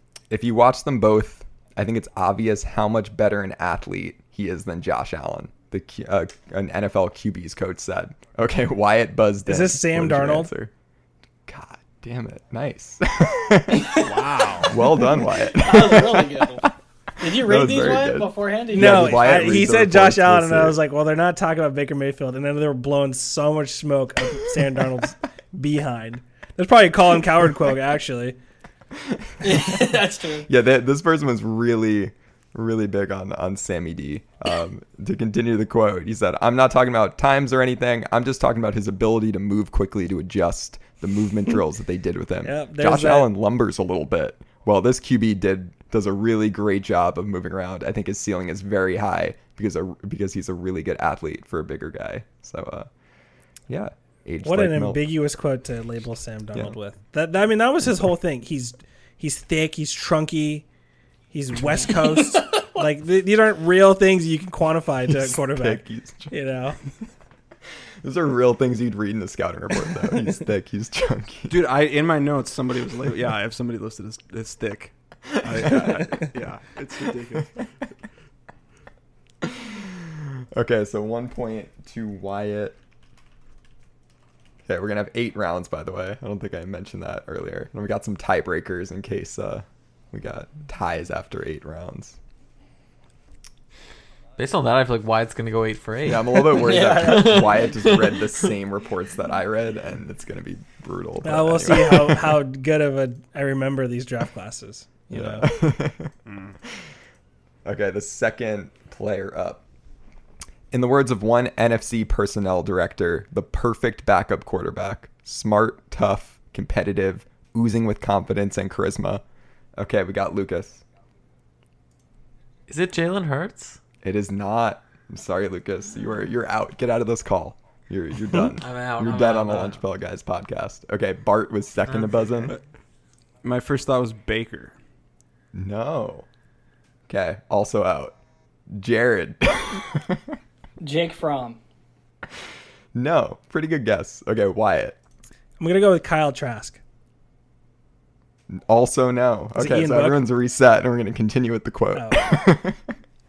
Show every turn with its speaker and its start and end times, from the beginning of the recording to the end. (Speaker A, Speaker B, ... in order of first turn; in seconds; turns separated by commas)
Speaker A: 0.3-10.7, Speaker B: 9.5-10.5, Speaker A: 11.5-14.1, Speaker C: 13.9-14.8, Speaker A: 14.6-20.8, Speaker D: 15.0-16.7, Speaker D: 17.2-19.3, Speaker B: 18.7-28.4, Speaker A: 29.0-52.9, Speaker D: 29.4-30.5, Speaker B: 42.4-43.3, Speaker A: 53.7-55.1, Speaker B: 54.4-60.6, Speaker B: 61.3-66.8, Speaker A: 65.1-66.9, Speaker A: 68.0-71.6, Speaker C: 71.5-77.7, Speaker A: 75.4-76.0, Speaker A: 79.4-82.8, Speaker A: 84.7-92.2, Speaker E: 94.4-98.5, Speaker A: 96.0-102.4, Speaker D: 96.5-97.9, Speaker B: 101.2-105.5, Speaker A: 105.1-106.1, Speaker C: 106.3-106.6, Speaker A: 107.7-109.6, Speaker A: 110.7-119.2, Speaker A: 119.8-120.8, Speaker E: 122.7-123.8, Speaker A: 124.0-132.6, Speaker E: 128.6-129.8, Speaker C: 133.4-134.8, Speaker A: 135.6-136.3, Speaker A: 137.1-138.2, Speaker A: 138.7-140.4, Speaker D: 140.8-141.6, Speaker A: 142.9-145.0, Speaker B: 145.6-146.8, Speaker A: 148.5-152.9, Speaker B: 149.6-150.2, Speaker B: 151.9-152.3